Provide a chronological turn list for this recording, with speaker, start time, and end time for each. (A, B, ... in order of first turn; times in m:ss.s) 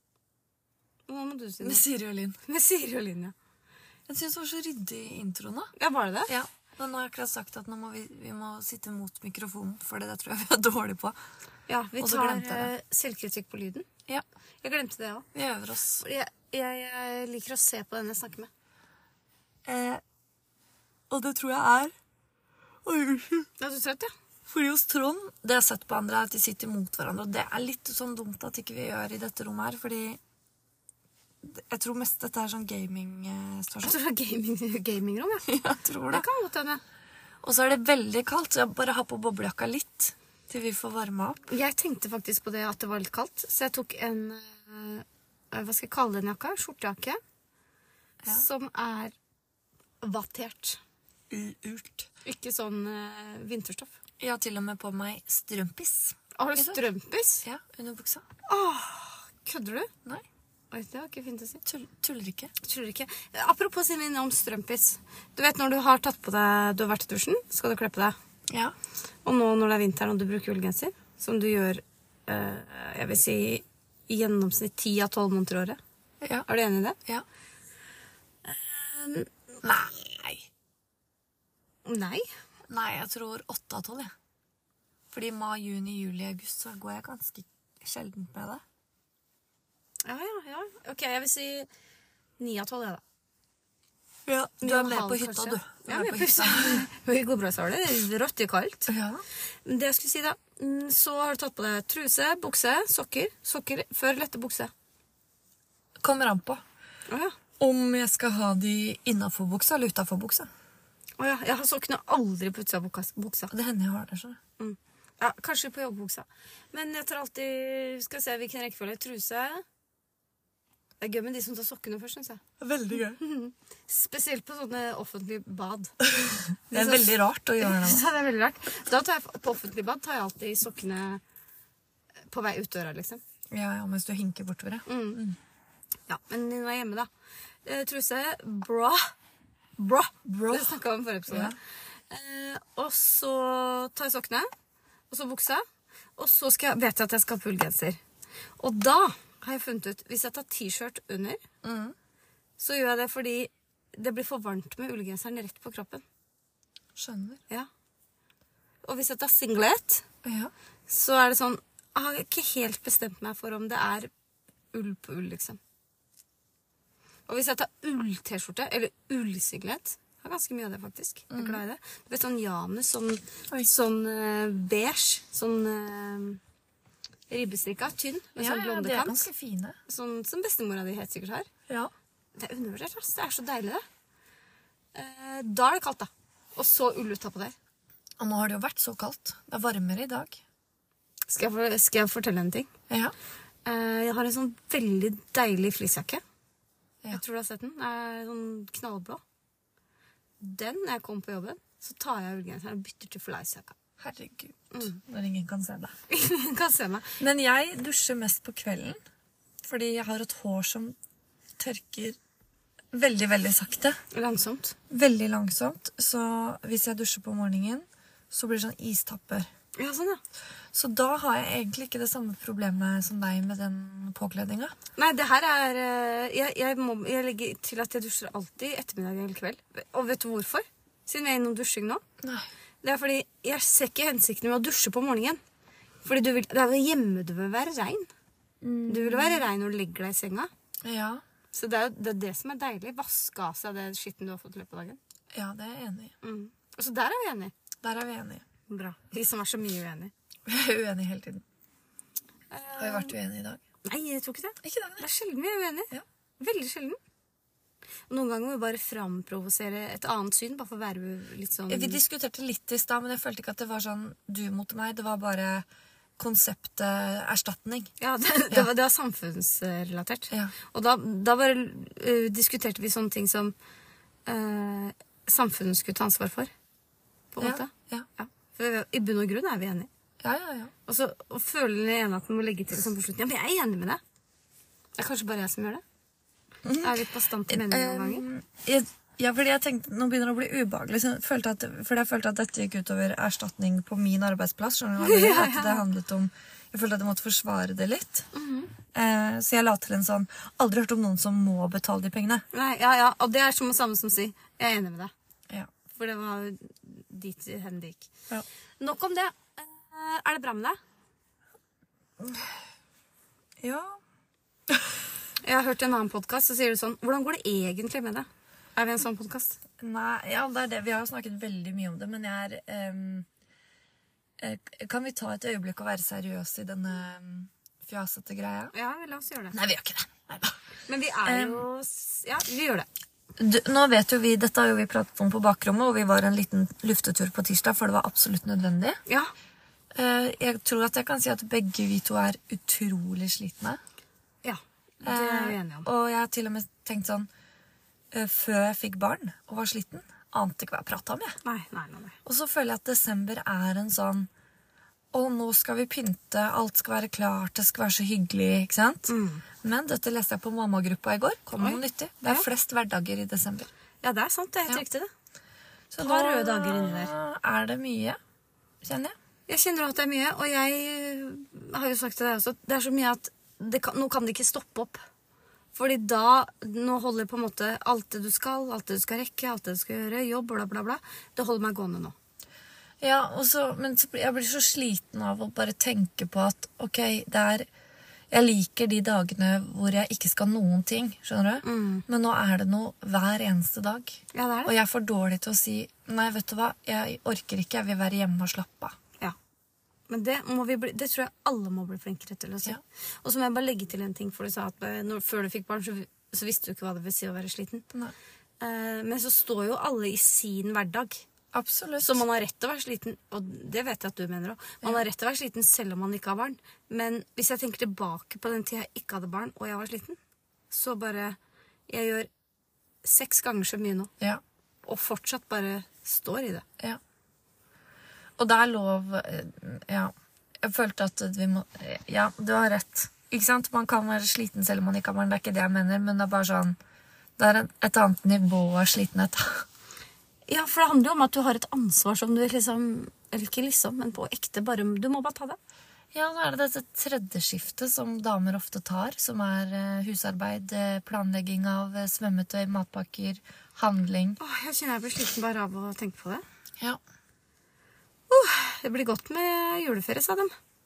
0:01.1-0:01.8 A
0:01.6-0:02.4 B
0:02.4-0:03.3 A
0:04.1-0:05.7 B
0:05.8-0:06.3 A
0:06.3-0:11.2 B
0:11.7-0:13.9 A
0:12.0-0:12.7 B
0:14.6-0:15.3 A
0:15.3-0:16.0 B
0:16.0-0:18.5 A
0:19.6-0:20.0 B
0:21.1-0:21.9 B
0:22.8-0:23.5 B
0:23.6-0:24.1 A
0:24.5-0:30.2 B
0:31.4-0:34.0 B
0:33.8-0:36.8 A
0:35.5-0:36.2 B
0:37.4-0:41.4 B
0:41.5-0:47.2 A
0:48.3-0:49.1 A
0:50.0-0:50.8 A
0:51.3-0:52.1 B
0:52.2-0:53.9 A
0:54.2-0:56.8 B
0:56.3-0:57.4 A
0:57.4-0:58.2 B
0:58.5-0:59.9 A
1:00.7-1:01.6 A
1:01.6-1:02.5 B
1:02.6-1:08.2 A
1:08.5-1:08.7 B
1:09.2-1:15.8 A
1:16.4-1:17.0 A
1:18.4-1:19.4 A
1:19.6-1:20.4 B
1:21.8-1:22.3 A
1:22.7-1:24.1 B
1:25.1-1:28.6 B
1:30.0-1:31.7 A
1:32.4-1:33.0 A
1:34.3-1:36.9 B
1:34.6-1:38.9 A
1:38.9-1:39.2 B
1:39.6-1:44.7 A
1:46.0-1:46.6 B
1:47.1-1:47.3 A
1:47.6-1:50.5 B
1:51.2-1:53.5 A
1:53.5-1:54.4 B
1:54.6-1:59.6 A
2:01.0-2:02.4 A
2:02.6-2:03.2 B
2:02.9-2:06.0 A
2:06.0-2:08.0 B
2:06.7-2:11.2 A
2:12.3-2:13.2 A
2:13.5-2:15.4 B
2:14.8-2:15.2 A
2:16.1-2:17.1 A
2:17.6-2:19.1 A
2:19.8-2:24.5 A
2:20.2-2:20.8 B
2:21.3-2:21.6 B
2:25.1-2:25.6 A
2:26.2-2:28.0 A
2:28.6-2:31.4 A
2:31.6-2:31.9 B
2:32.6-2:36.0 A
2:37.0-2:37.4 B
2:38.8-2:40.0 A
2:40.2-2:40.5 B
2:40.9-2:44.1 A
2:44.7-2:45.6 A
2:47.3-2:56.4 A
2:51.3-2:51.6 B
2:57.3-2:59.3 A
2:58.4-2:59.8 B
2:59.9-3:01.5 A
3:02.4-3:03.8 A
3:04.9-3:07.6 A
3:08.2-3:10.4 B
3:11.3-3:12.7 A
3:13.6-3:16.2 A
3:17.1-3:19.2 A
3:20.4-3:23.7 A
3:24.0-3:25.9 B
3:24.7-3:25.0 A
3:26.1-3:27.1 A
3:27.2-3:29.0 B
3:29.6-3:30.9 B
3:31.6-3:32.2 B
3:32.9-3:34.0 B
3:34.1-3:34.8 A
3:34.9-3:39.5 B
3:39.8-3:40.2 A
3:40.7-3:44.8 B
3:45.0-3:52.0 A
3:52.2-3:52.5 B
3:52.8-3:55.4 A
3:56.0-3:58.1 A
3:58.6-3:59.4 B
3:58.8-4:00.5 A
4:00.8-4:01.2 B
4:01.5-4:05.0 A
4:05.3-4:06.1 B
4:06.2-4:07.5 A
4:07.8-4:08.4 B
4:08.7-4:10.1 A
4:10.4-4:11.4 B
4:12.5-4:13.1 A
4:12.8-4:13.6 B
4:13.8-4:17.0 A
4:14.6-4:15.0 B
4:18.1-4:22.0 A
4:21.7-4:25.6 B
4:26.2-4:27.9 B
4:28.0-4:33.5 A
4:34.2-4:36.5 A
4:37.3-4:39.9 A
4:37.4-4:38.1 B
4:40.2-4:40.7 B
4:40.9-4:44.0 A
4:45.0-4:45.8 A
4:46.6-4:58.3 B
4:46.8-4:48.2 A
4:55.0-4:55.8 A
4:58.3-4:58.7 A
4:58.9-5:02.4 B
5:02.5-5:05.1 A
5:05.9-5:08.1 A
5:08.8-5:10.8 A
5:12.2-5:12.6 B
5:13.6-5:14.0 B
5:15.4-5:19.6 A
5:19.8-5:23.3 B
5:24.4-5:28.7 B
5:28.7-5:29.6 A
5:29.5-5:30.6 B
5:30.9-5:32.9 A
5:31.2-5:31.6 B
5:33.4-5:39.0 B
5:39.1-5:39.3 A
5:39.9-5:43.8 B
5:44.4-5:45.9 A
5:45.0-5:47.3 B
5:48.1-5:51.4 B
5:51.4-5:52.2 A
5:52.2-5:54.3 B
5:55.1-6:03.7 B
5:59.1-5:59.4 A
6:01.6-6:02.5 A
6:04.0-6:05.1 A
6:05.9-6:08.2 B
6:06.0-6:07.1 A
6:08.8-6:09.1 B
6:09.5-6:15.0 A
6:15.7-6:22.1 A
6:23.0-6:27.7 B
6:28.3-6:39.0 B
6:31.6-6:32.0 A
6:34.3-6:34.7 A
6:40.1-6:47.8 A
6:48.6-6:51.2 A
6:51.5-6:52.2 B
6:52.0-7:00.2 A
7:00.7-7:02.3 A
7:03.0-7:04.1 A
7:04.8-7:06.6 A
7:08.4-7:16.8 B
7:17.4-7:19.6 B
7:20.5-7:25.6 A
7:26.1-7:34.4 B
7:34.4-7:36.4 A
7:38.3-7:40.5 A